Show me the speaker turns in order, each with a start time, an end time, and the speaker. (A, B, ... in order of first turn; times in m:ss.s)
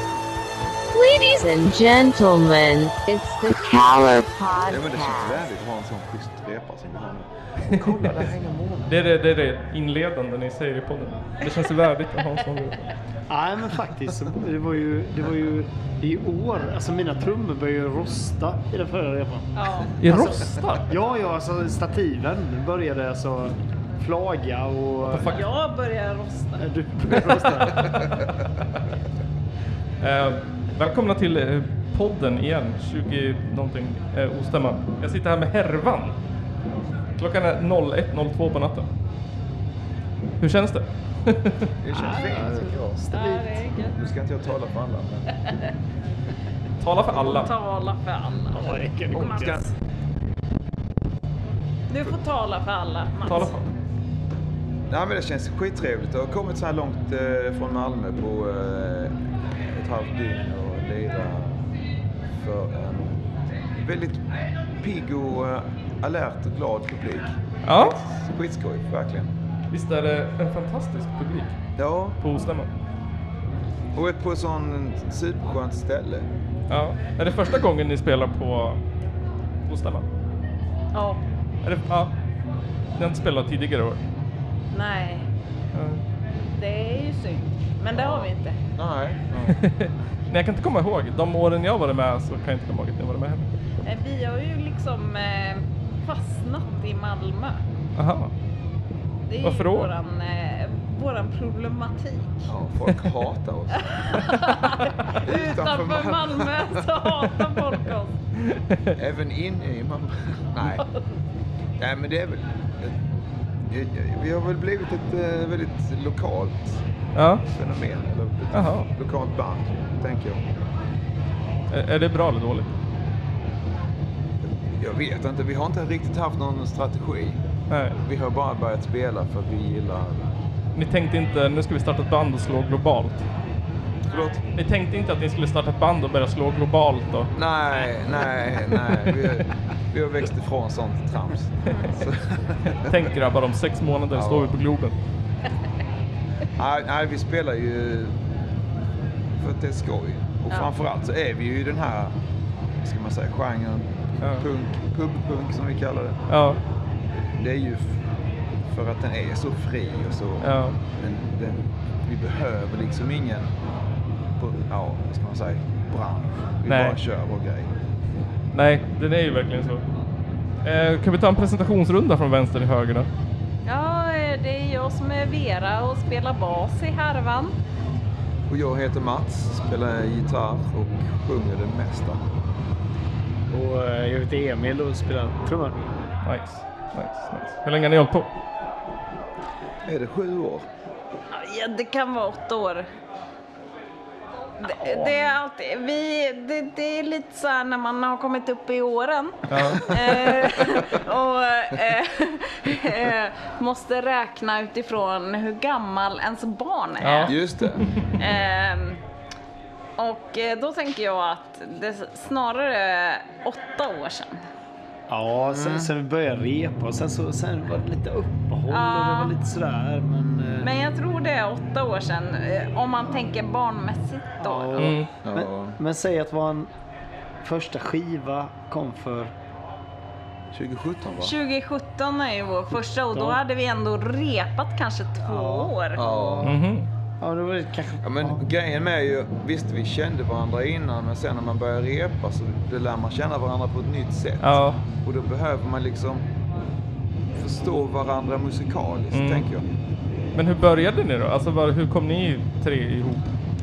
0:00.9-0:05.4 A
0:04.7-0:08.9 B
0:07.7-0:08.2 C
0:08.9-0:12.9 C
0:13.3-0:19.5 D
0:19.5-0:19.9 E
0:20.0-0:20.9 C
0:20.0-0:25.3 D
0:25.0-0:25.4 C
0:25.3-0:26.6 E
0:26.6-0:28.1 D
0:30.0-0:36.1 C
0:37.2-0:38.9 C
0:40.4-0:41.7 C
0:41.8-0:43.0 B
0:41.9-0:43.6 D
0:43.1-0:44.0 E
0:43.9-0:45.2 B
0:46.8-0:47.5 C
0:47.1-0:49.5 E
0:48.5-0:49.6 D
0:49.1-0:49.6 B
0:51.9-0:53.6 E
0:53.2-0:53.6 C
0:54.9-1:01.6 B
1:02.4-1:03.1 B
1:03.8-1:04.2 B
1:04.8-1:09.3 B
1:07.6-1:08.0 C
1:09.7-1:11.5 C
1:11.8-1:12.2 B
1:12.2-1:12.7 C
1:13.9-1:16.2 B
1:16.7-1:18.8 C
1:19.7-1:20.0 C
1:20.9-1:21.2 E
1:21.6-1:22.1 C
1:23.0-1:24.0 C
1:24.7-1:25.2 E
1:25.7-1:26.0 C
1:26.6-1:28.6 E
1:27.9-1:29.6 B
1:29.5-1:33.4 C
1:33.8-1:37.6 E
1:38.0-1:38.3 C
1:39.3-1:42.5 E
1:39.4-1:39.9 C
1:42.5-1:44.2 B
1:43.9-1:48.2 E
1:45.1-1:46.9 B
1:48.5-1:48.9 C
1:48.9-1:50.8 B
1:51.8-1:53.0 B
1:53.6-1:56.8 B
1:57.1-1:57.4 C
1:57.5-2:00.5 B
1:58.5-1:58.9 C
2:01.7-2:02.7 C
2:04.7-2:07.4 B
2:07.7-2:08.0 C
2:08.0-2:10.4 B
2:10.8-2:13.2 C
2:14.1-2:14.4 E
2:14.1-2:14.4 B
2:14.5-2:17.3 C
2:17.3-2:22.9 B
2:21.6-2:22.0 E
2:22.6-2:24.9 C
2:24.1-2:24.6 B
2:26.6-2:28.2 B
2:29.4-2:32.1 B
2:32.8-2:36.2 B
2:36.3-2:36.6 C
2:37.4-2:38.0 B
2:38.7-2:43.5 B
2:40.4-2:40.8 C
2:44.4-2:47.7 B
2:46.7-2:47.0 C
2:48.5-2:49.8 C
2:50.6-2:53.1 C
2:53.6-2:57.5 E
2:58.5-3:02.2 B
3:03.5-3:05.8 D
3:06.2-3:08.3 C
3:09.8-3:10.6 B
3:11.3-3:12.8 E
3:14.6-3:27.3 E
3:14.8-3:15.3 D
3:19.5-3:19.9 C
3:27.0-3:27.8 C
3:27.3-3:27.8 B
3:28.2-3:29.0 E
3:30.0-3:34.4 E
3:35.1-3:40.7 D
3:35.4-3:35.9 B
3:38.7-3:39.4 E
3:40.6-3:44.9 E
3:44.4-3:46.7 D
3:44.8-3:45.1 C
3:45.2-3:45.8 B
3:47.4-3:49.3 D
3:50.5-3:51.4 B
3:51.2-3:56.0 E
3:53.1-3:53.4 D
3:55.2-3:56.5 D
3:56.0-3:56.6 B
3:56.4-3:56.9 C
3:57.2-3:58.4 D
3:58.0-4:06.2 B
4:04.4-4:04.8 C
4:07.3-4:09.7 B
4:09.1-4:09.4 C
4:10.3-4:13.3 C